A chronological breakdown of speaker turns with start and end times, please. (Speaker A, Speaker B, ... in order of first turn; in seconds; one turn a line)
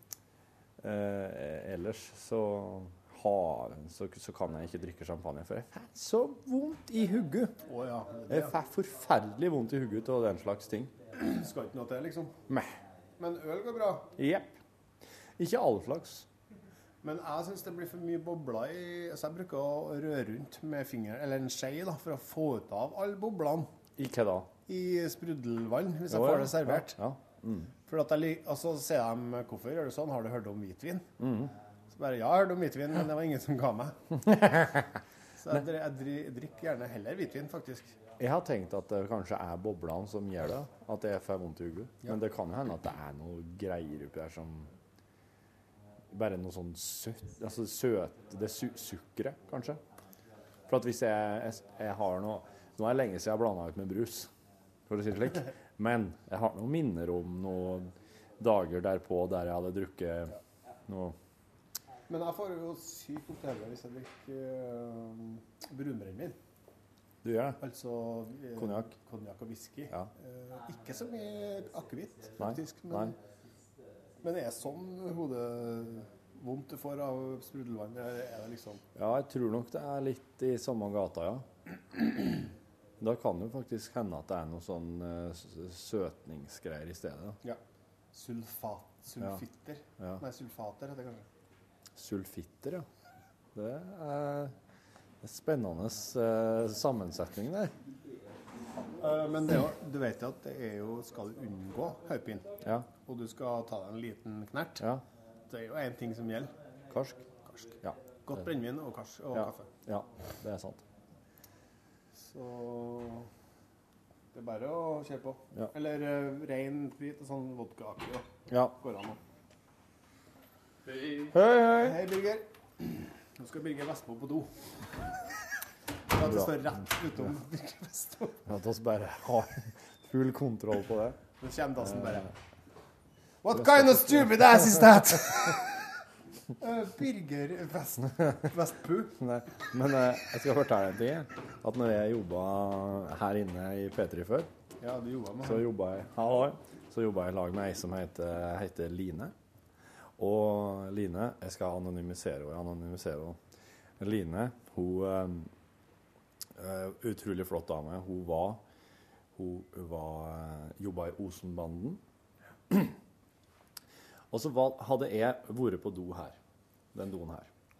Speaker A: 0.8-7.6
Speaker B: 7.7-8.5
Speaker A: 8.3-10.9
Speaker B: 11.1-12.4
Speaker B: 13.2-14.1
Speaker A: 14.2-14.6
Speaker A: 15.4-16.3
Speaker B: 17.0-23.7
Speaker A: 24.0-24.5
Speaker B: 24.7-27.0
Speaker A: 26.1-27.7
Speaker B: 27.9-31.1
Speaker A: 31.2-31.5
Speaker B: 31.9-34.0
Speaker A: 34.3-34.9
Speaker B: 35.4-38.0
Speaker A: 38.2-44.7
Speaker A: 46.1-49.8
Speaker A: 50.7-54.3
Speaker A: 54.9-60.4
Speaker A: 60.9-61.2
Speaker B: 62.1-66.4
Speaker A: 67.2-67.6
Speaker B: 67.6-73.1
Speaker A: 68.6-68.9
Speaker A: 72.4-73.1
Speaker B: 74.2-78.8
Speaker A: 79.0-81.5
Speaker A: 83.0-87.4
Speaker B: 88.1-91.3
Speaker A: 92.0-92.9
Speaker A: 93.5-94.5
Speaker A: 95.2-97.7
Speaker B: 99.0-104.9
Speaker A: 102.6-102.9
Speaker B: 105.5-106.5
Speaker A: 106.9-107.2
Speaker B: 107.5-109.7
Speaker A: 109.3-110.8
Speaker B: 112.1-113.3
Speaker B: 114.3-119.2
Speaker A: 118.5-118.8
Speaker A: 121.3-122.0
Speaker B: 121.7-124.5
Speaker B: 126.1-128.4
Speaker A: 126.2-126.7
Speaker A: 128.5-131.2
Speaker B: 131.4-132.3
Speaker A: 131.8-132.2
Speaker B: 133.4-135.9
Speaker A: 133.5-135.3
Speaker B: 136.6-139.2
Speaker A: 139.1-144.5
Speaker B: 144.8-145.7
Speaker A: 145.4-149.3
Speaker A: 150.2-153.4
Speaker A: 154.0-155.5
Speaker A: 156.6-158.6
Speaker A: 159.4-162.0
Speaker A: 164.3-166.4
Speaker A: 166.9-167.5